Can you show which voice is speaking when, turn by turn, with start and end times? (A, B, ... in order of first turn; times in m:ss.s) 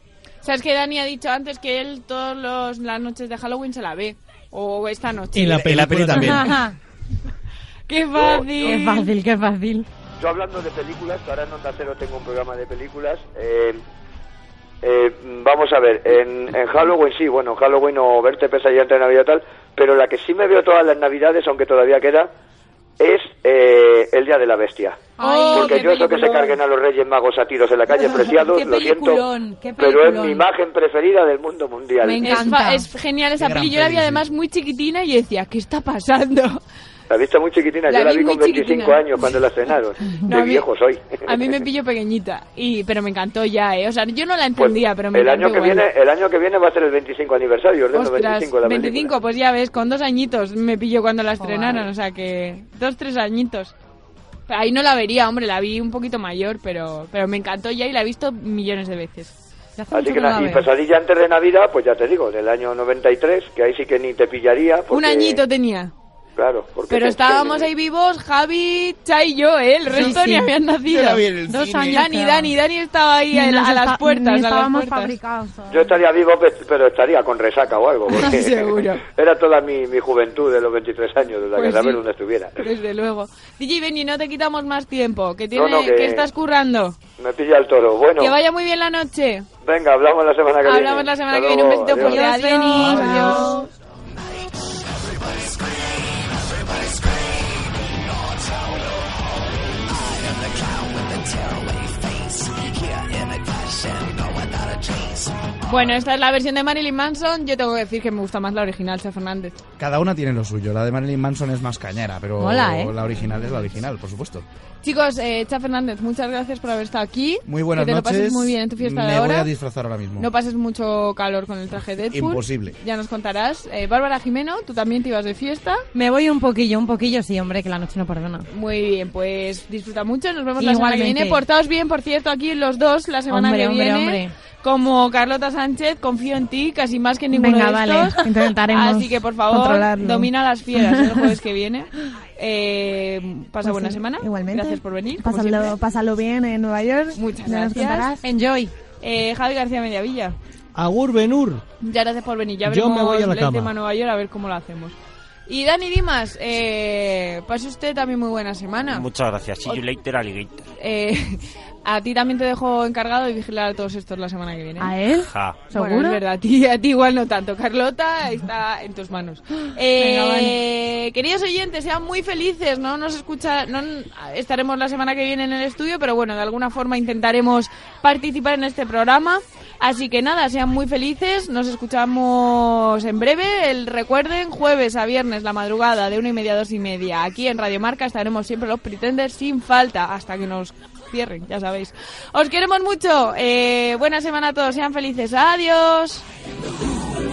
0:00.4-0:05.6 A
0:05.3-0:06.6 B
0:05.4-0:06.6 C
0:06.1-0:06.7 D
0:07.9-0:09.1 A
0:08.1-0:08.8 E
0:08.6-0:09.9 D
0:10.2-0:13.8 E
0:14.8-0:22.3 E
0:23.0-0:29.2 E
0:25.2-0:26.0 D
0:25.2-0:26.6 A
0:28.3-0:30.4 D
0:29.8-0:32.5 E
0:32.0-0:32.8 D
0:32.2-0:36.6 A
0:33.4-0:34.2 C
0:37.1-0:41.6 E
0:37.9-0:39.5 A
0:40.1-0:40.7 A
0:41.2-0:45.9 A
0:44.6-0:49.2 E
0:47.9-0:53.7 A
0:51.4-0:51.9 D
0:54.5-0:59.3 A
0:59.8-1:00.7 D
0:59.9-1:05.4 E
1:04.9-1:05.9 A
1:06.4-1:07.7 E
1:06.9-1:11.3 A
1:09.9-1:10.5 D
1:10.8-1:12.0 C
1:11.5-1:12.6 D
1:11.9-1:15.2 A
1:13.3-1:15.9 D
1:15.7-1:22.6 E
1:18.1-1:19.0 A
1:21.5-1:22.0 A
1:22.6-1:27.0 A
1:25.5-1:26.3 E
1:27.2-1:28.4 E
1:28.2-1:29.5 A
1:29.6-1:32.2 E
1:30.6-1:33.7 A
1:32.0-1:33.7 D
1:45.6-1:49.6 A
1:49.8-1:54.4 C
1:52.4-1:52.9 D
1:54.8-1:59.5 A
1:57.4-2:00.3 C
2:00.2-2:05.8 A
2:02.1-2:02.7 C
2:05.9-2:08.4 D
2:08.5-2:25.8 A
2:10.6-2:11.4 D
2:13.3-2:14.3 D
2:17.3-2:20.3 F
2:23.6-2:28.2 F
2:27.1-2:28.1 A
2:28.2-2:28.7 D
2:29.0-2:30.4 A
2:30.7-2:31.6 B
2:31.8-2:34.9 A
2:32.6-2:33.7 B
2:35.5-2:39.1 A
2:38.9-2:40.6 G
2:40.8-2:44.9 A
2:44.8-2:46.2 F
2:45.2-2:45.7 G
2:45.7-3:16.2 A
2:50.0-2:50.6 D